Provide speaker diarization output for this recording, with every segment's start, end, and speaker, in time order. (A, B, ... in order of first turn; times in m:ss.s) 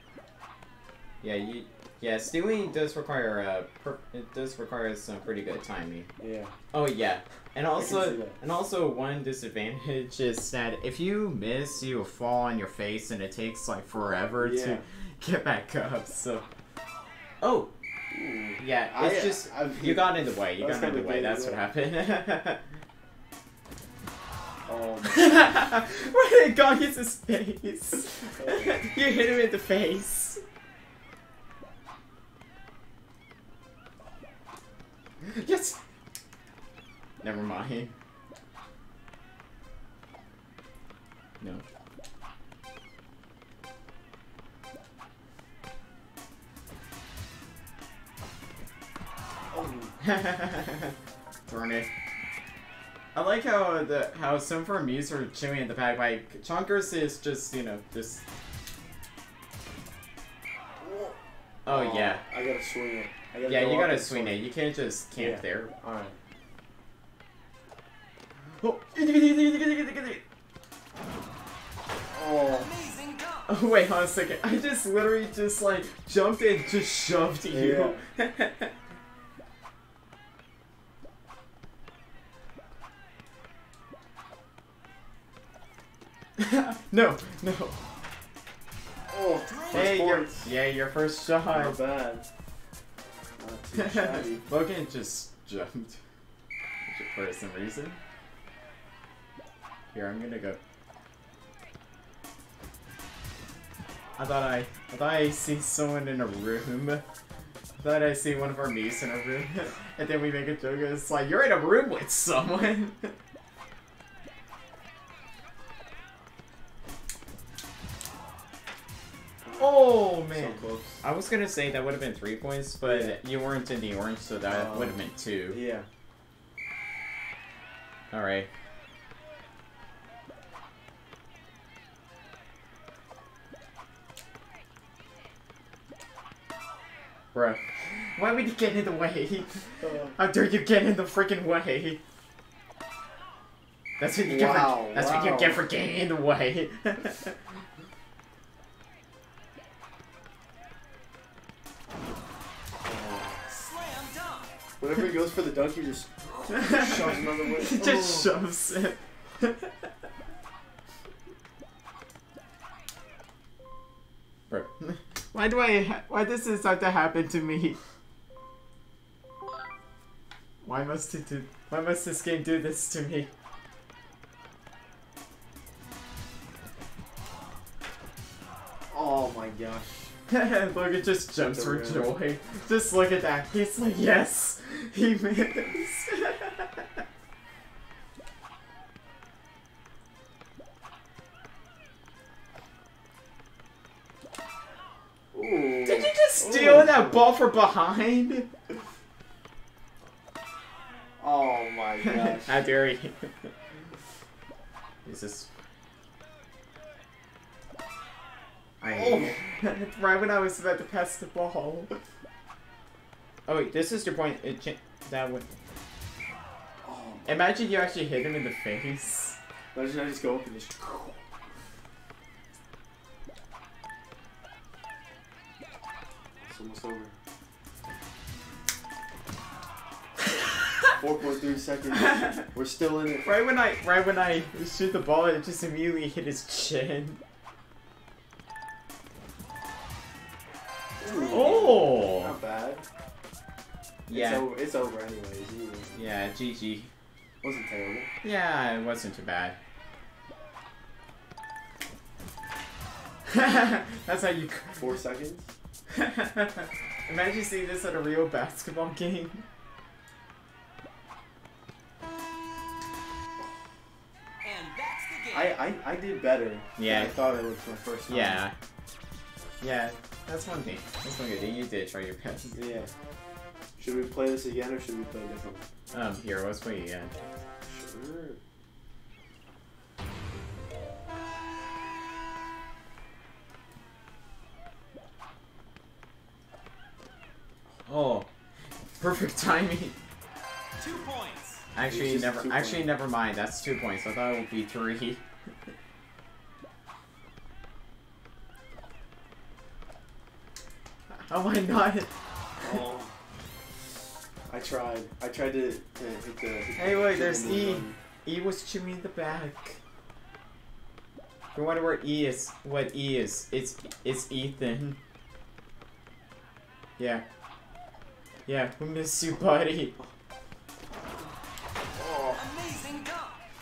0:01.2-0:06.1 A
0:06.2-0:06.5 B
0:06.7-0:16.4 A
0:07.7-0:08.4 B
0:14.4-0:14.8 B
0:17.4-0:17.7 A
0:18.1-0:21.6 B
0:18.6-0:22.7 A
0:24.6-0:25.3 B
0:25.0-0:30.4 A
0:28.4-0:28.8 B
0:35.2-0:35.8 A
0:37.2-0:37.9 A
0:49.5-0:50.0 B
0:50.0-0:50.9 A
0:51.5-0:51.9 A
0:53.1-0:58.2 A
1:00.8-1:04.5 B
1:01.6-1:02.2 A
1:03.4-1:05.7 A
1:05.1-1:06.2 B
1:08.6-1:10.2 A
1:12.1-1:12.8 B
1:12.8-1:13.2 C
1:13.5-1:18.7 A
1:17.5-1:18.0 B
1:26.4-1:27.9 A
1:29.1-1:30.5 B
1:29.7-1:31.8 A
1:31.3-1:32.2 B
1:33.4-1:34.4 B
1:33.7-1:36.0 A
1:36.8-1:38.0 A
1:39.9-1:40.6 A
1:44.2-1:47.0 A
1:47.8-1:53.1 A
1:59.4-2:01.0 B
1:59.6-2:05.6 A
2:02.8-2:03.2 B
2:04.4-2:05.8 B
2:08.1-2:08.5 A
2:17.3-2:22.0 A
2:19.8-2:20.2 B
2:24.0-2:27.4 A
2:24.2-2:25.7 B
2:32.8-2:33.5 B
2:33.9-2:34.4 C
2:34.8-2:38.3 B
2:36.5-2:39.7 A
2:44.5-2:47.8 A
2:50.6-2:53.3 A
2:58.9-3:00.1 B
3:00.3-3:07.0 A
3:01.4-3:02.2 B
3:15.3-3:17.2 B
3:15.8-3:18.5 A
3:21.2-3:22.6 B
3:22.0-3:23.5 A
3:25.0-3:25.5 A
3:28.8-3:31.9 A
3:28.8-3:29.4 B
3:33.5-3:35.4 A
3:36.8-3:37.5 B
3:37.2-3:39.4 A
3:39.7-3:41.2 B
3:46.4-3:47.1 B
3:50.9-3:53.3 B
3:51.9-3:52.4 A
3:53.2-3:57.2 A
4:01.0-4:02.8 B
4:01.1-4:01.6 C
4:01.3-4:02.3 A
4:04.1-4:04.4 A
4:04.1-4:06.0 B
4:05.9-4:06.9 A
4:07.4-4:08.1 B
4:08.2-4:09.6 A
4:13.2-4:14.9 A
4:14.8-4:15.5 B
4:15.9-4:19.4 A
4:24.4-4:25.4 C
4:25.3-4:28.4 B
4:26.8-4:27.1 A
4:28.1-4:28.5 A
4:29.6-4:32.6 A
4:32.5-4:32.9 B
4:33.8-4:35.6 B
4:35.9-4:37.2 A
4:37.6-4:38.4 B
4:47.8-4:48.3 A
4:49.0-4:50.0 A
4:50.8-4:51.6 C
4:51.7-4:55.2 A
4:51.8-4:53.0 B
5:01.3-5:02.1 A
5:02.6-5:03.1 B
5:04.5-5:08.0 B
5:06.8-5:09.8 A
5:11.5-5:15.0 A
5:17.0-5:17.2 A
5:18.4-5:20.0 A
5:21.9-5:22.6 B